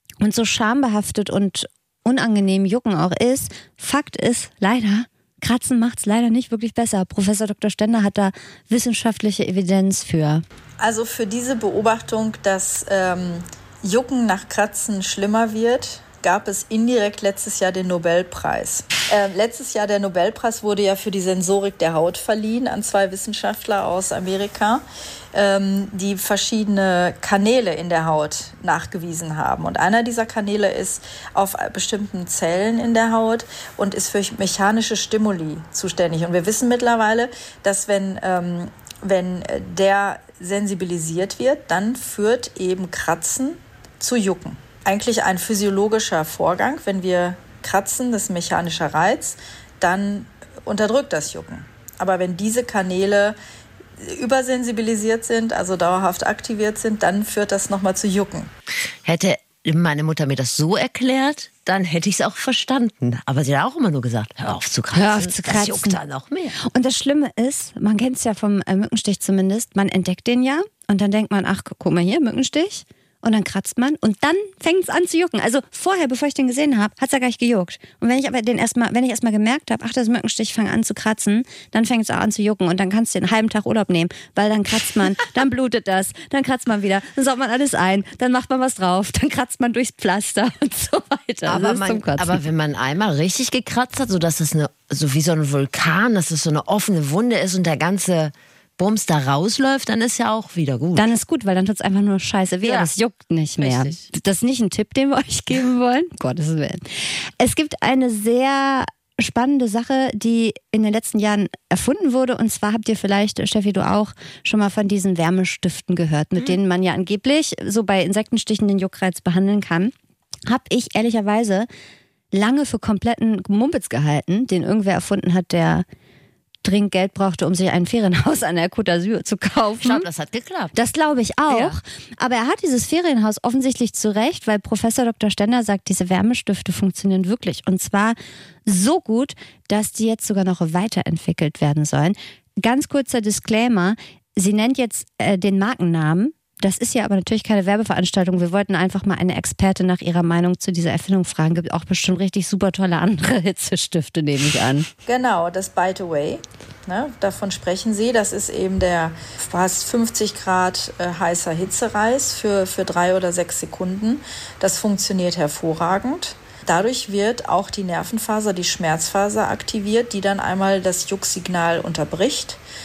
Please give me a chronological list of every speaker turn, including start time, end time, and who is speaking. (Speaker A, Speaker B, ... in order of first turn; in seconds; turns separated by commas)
Speaker A: 0.2-10.4, Speaker B: 10.8-24.8, Speaker B: 25.3-53.4, Speaker B: 54.0-58.5, Speaker C: 59.0-66.6, Speaker A: 64.9-66.0, Speaker A: 66.6-92.4, Speaker C: 91.5-101.1, Speaker A: 101.0-119.9, Speaker C: 102.6-102.9, Speaker C: 103.6-104.0, Speaker A: 120.5-121.7, Speaker A: 122.3-125.8, Speaker A: 126.6-130.1, Speaker C: 129.8-130.8, Speaker A: 130.7-154.9, Speaker C: 131.5-131.8, Speaker B: 155.1-172.6